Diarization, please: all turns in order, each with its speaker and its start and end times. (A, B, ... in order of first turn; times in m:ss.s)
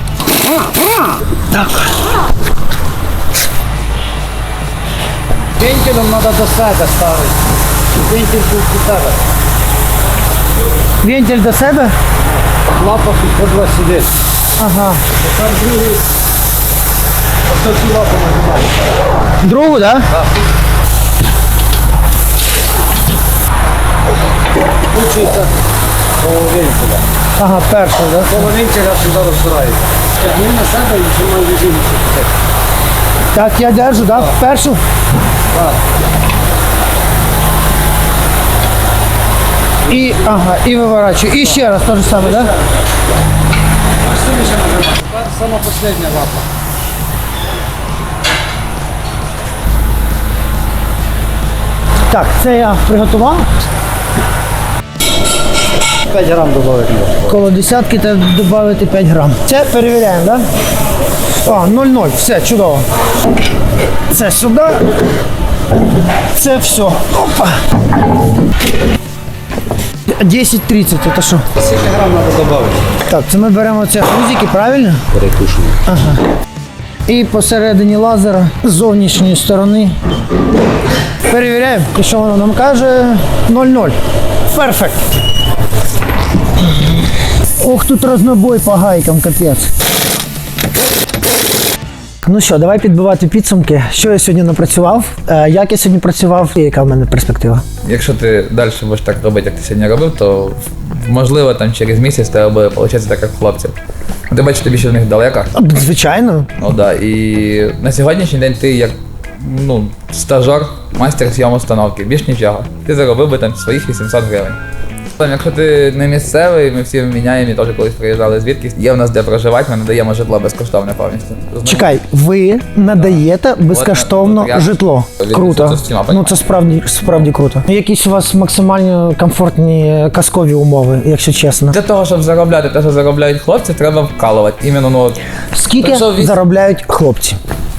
0:01.6-0:01.8 A
0:05.6-0:07.4 B
0:07.9-0:09.2 B
0:11.0-0:11.9 A
0:12.7-0:14.1 B
0:14.6-0:15.0 A
0:15.2-0:16.0 B
0:17.5-0:18.7 B
0:19.4-0:20.1 A
0:24.9-0:25.5 B
0:26.2-0:27.0 B
0:27.4-0:28.5 A
0:28.3-0:32.3 B
0:33.3-0:34.8 A
0:39.9-0:42.5 A
0:44.0-0:46.4 B
0:52.1-0:53.4 A
0:56.0-0:57.3 B
0:57.2-1:00.4 A
1:01.4-1:02.8 A
1:04.1-1:04.9 A
1:06.3-1:07.6 A
1:10.1-1:11.4 A
1:11.6-1:12.9 B
1:13.0-1:15.0 A
1:15.1-1:15.8 B
1:15.8-1:16.2 A
1:17.1-1:20.0 A
1:21.3-1:24.0 A
1:24.5-1:25.0 A
1:27.6-1:29.7 A
1:32.2-1:37.6 A
1:37.8-1:43.7 C
1:44.3-1:45.5 C
1:45.5-1:46.5 A
1:46.6-1:54.6 C
1:55.2-2:01.9 C
2:01.6-2:11.8 A
2:03.0-2:06.4 C
2:11.7-2:15.2 C
2:15.5-2:17.4 A
2:15.8-2:16.4 C